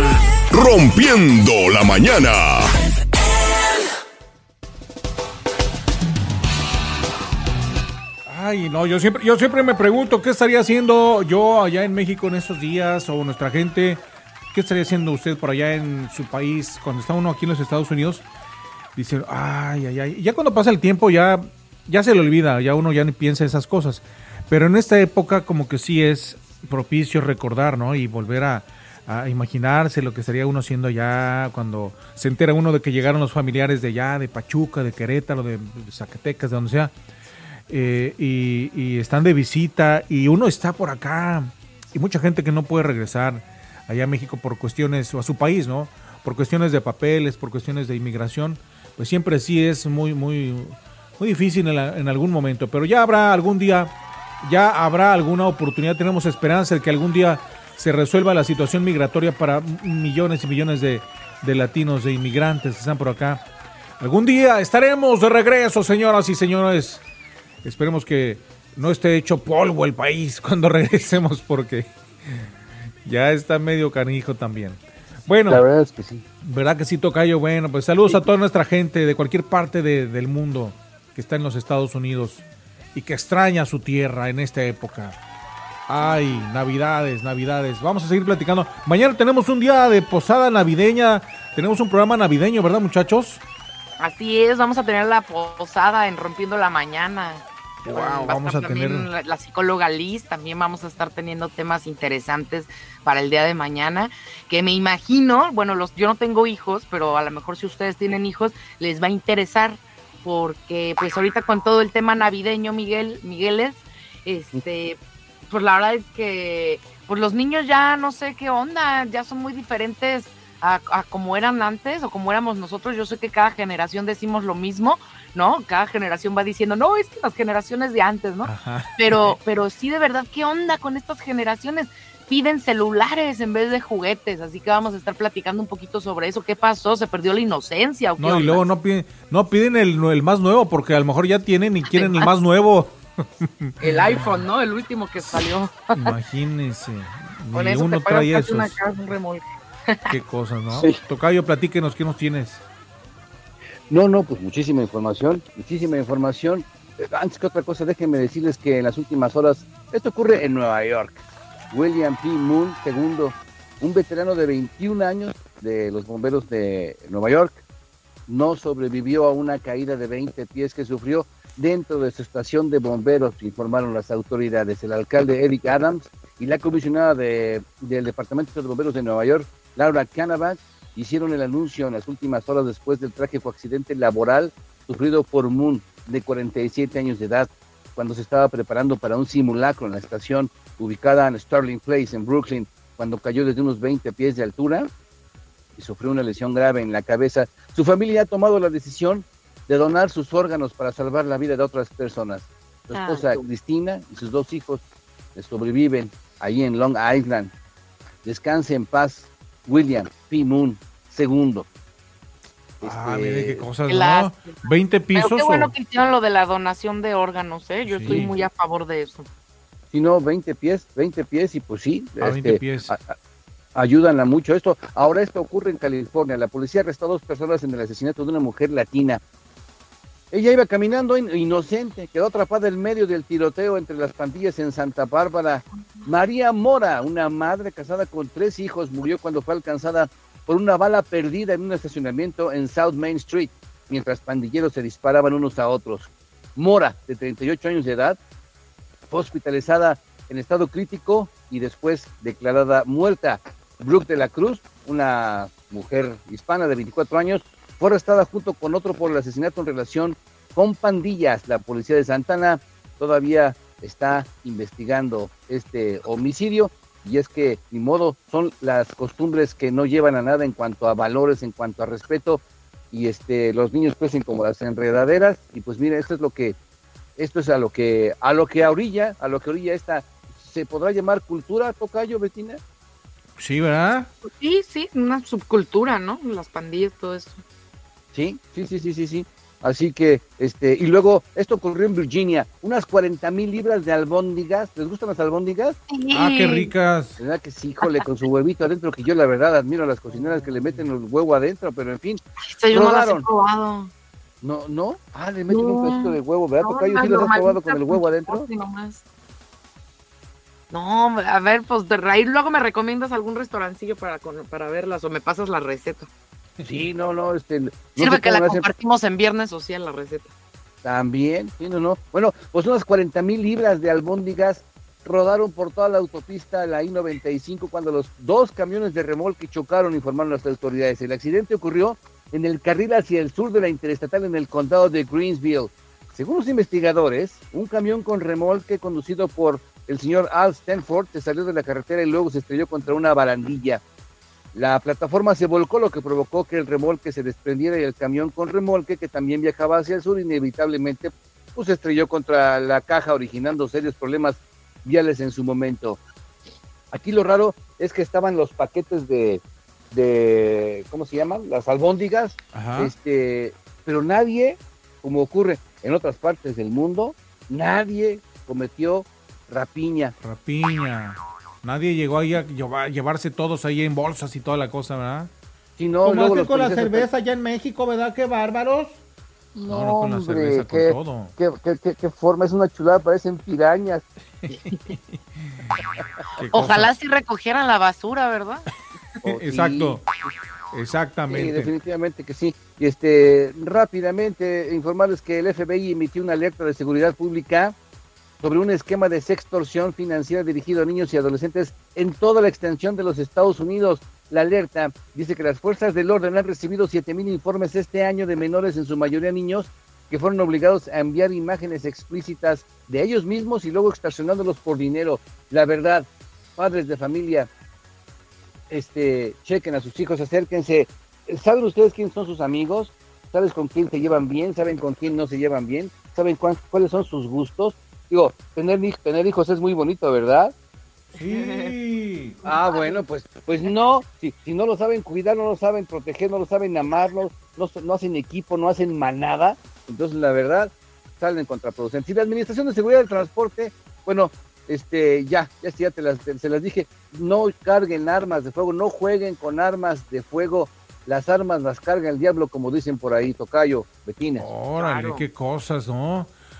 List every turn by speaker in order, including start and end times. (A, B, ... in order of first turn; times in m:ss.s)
0:00.5-0:02.7 A
0:08.3-0:14.0 B
0:14.5-0:18.2 B
0:19.0-0:36.9 B
0:37.7-1:03.4 B
1:04.0-1:07.0 B
1:07.6-1:12.5 B
1:13.0-1:15.6 B
1:15.5-1:16.2 C
1:16.4-1:22.4 B
1:22.9-1:25.2 B
1:25.9-1:33.4 B
1:34.0-1:55.0 D
1:37.8-1:39.1 B
1:55.5-2:18.6 D
2:08.4-2:09.4 B
2:18.2-2:24.3 B
2:21.9-2:22.3 D
2:23.8-2:26.0 D
2:25.9-2:28.8 B
2:27.5-2:30.1 D
2:30.1-2:32.6 B
2:30.7-2:31.0 C
2:33.9-2:47.6 C
2:48.3-3:14.9 C
3:15.8-3:24.8 C
3:22.9-3:23.4 D
3:25.3-3:27.5 C
3:28.2-3:31.7 C
3:32.8-3:33.6 C
3:32.8-3:35.7 B
3:33.9-3:39.3 D
3:37.8-3:38.3 B
3:39.9-3:43.2 C
3:42.2-3:43.0 B
3:43.7-3:49.2 C
3:50.3-4:08.2 C
4:09.1-4:36.6 C
4:37.2-4:42.6 C
4:43.4-4:44.1 B
4:44.2-4:47.4 D
4:48.1-4:55.8 C
4:55.9-4:56.7 D
4:56.1-4:57.2 B
4:57.2-5:03.3 C
5:02.5-5:03.9 D
5:04.4-5:08.5 C
5:05.5-5:09.0 D
5:10.7-5:16.1 D
5:16.6-5:18.6 C
5:18.0-5:20.3 D
5:20.8-5:43.8 C
5:44.5-5:56.0 C
5:56.9-6:10.1 C
6:02.5-6:02.9 B
6:10.2-6:15.3 B
6:15.8-6:17.1 C
6:16.0-6:19.0 E
6:19.5-6:24.0 C
6:19.7-6:21.3 B
6:24.4-6:25.2 B
6:26.4-6:26.9 B
6:26.4-6:28.6 D
6:29.2-6:30.0 C
6:29.2-6:30.0 B
6:30.7-6:31.7 B
6:31.3-6:37.8 C
6:38.4-6:57.5 C
6:58.7-7:10.5 C
7:11.2-7:12.4 B
7:11.2-7:11.7 D
7:12.4-7:34.5 C
7:12.4-7:13.0 D
7:34.4-7:36.3 B
7:34.8-7:35.2 D